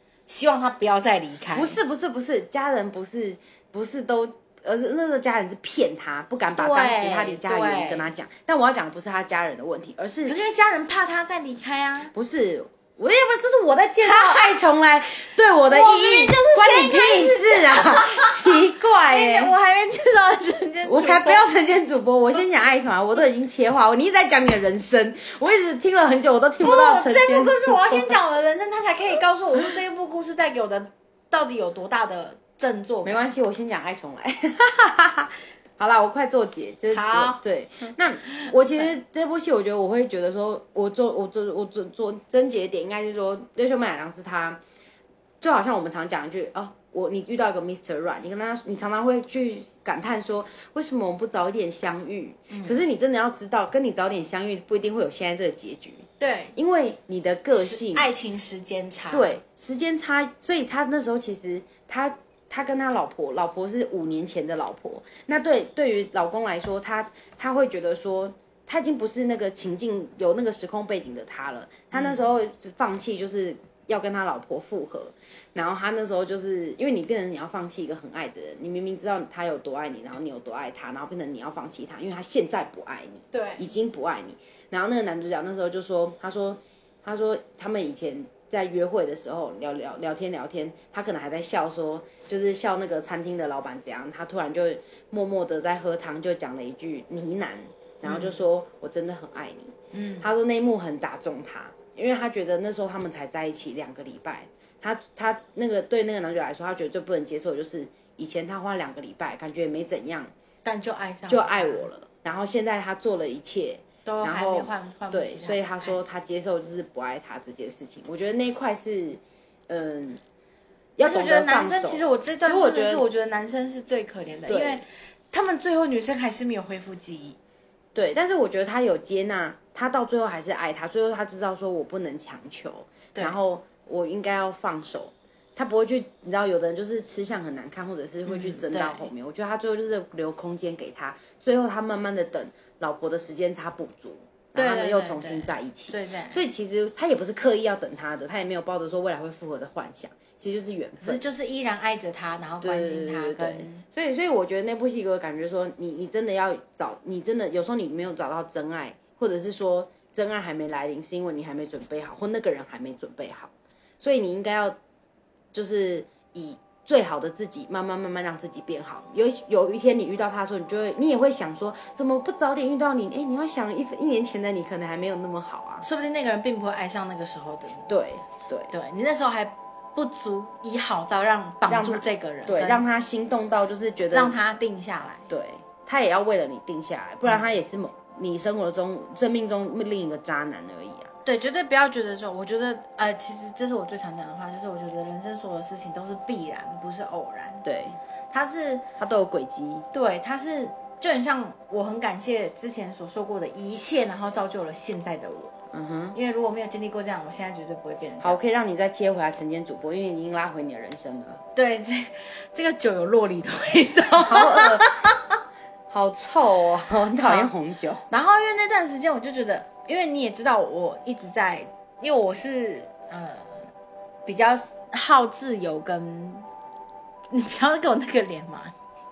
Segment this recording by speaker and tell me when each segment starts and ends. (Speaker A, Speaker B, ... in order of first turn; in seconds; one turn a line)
Speaker A: 0.3-1.8
Speaker B: 1.5-10.4
Speaker A: 6.6-8.1
Speaker A: 10.3-12.1
Speaker B: 12.1-19.5
Speaker A: 14.0-14.6
Speaker A: 15.7-21.5
Speaker B: 20.9-28.2
Speaker A: 26.6-33.3
Speaker B: 33.0-44.6
Speaker A: 36.9-37.4
Speaker B: 45.4-58.1
Speaker A: 52.5-52.8
Speaker A: 56.2-56.6
Speaker A: 57.5-59.3
Speaker B: 59.1-110.3
Speaker A: 71.9-72.2
Speaker A: 83.3-83.7
Speaker A: 98.0-98.4
Speaker A: 99.9-100.3
Speaker A: 110.7-111.9
Speaker B: 111.3-120.2
Speaker A: 114.1-116.0
Speaker B: 121.0-123.0
Speaker A: 121.0-127.4
Speaker B: 124.5-124.8
Speaker B: 128.0-151.2
Speaker A: 138.3-139.1
Speaker A: 144.6-146.4
Speaker A: 151.0-153.8
Speaker B: 152.6-164.8
Speaker B: 165.5-175.8
Speaker A: 175.8-177.9
Speaker B: 177.9-178.7
Speaker A: 178.7-182.8
Speaker B: 181.7-184.4
Speaker A: 184.1-185.3
Speaker B: 185.3-191.1
Speaker A: 191.2-197.7
Speaker B: 197.6-198.0
Speaker A: 198.3-198.8
Speaker B: 199.0-199.9
Speaker A: 199.9-205.6
Speaker B: 205.7-206.2
Speaker A: 206.1-208.4
Speaker B: 208.2-211.4
Speaker A: 211.6-215.2
Speaker B: 214.2-214.9
Speaker B: 215.9-218.0
Speaker A: 217.2-217.5
Speaker A: 218.1-223.7
Speaker A: 224.3-226.5
Speaker A: 227.3-228.7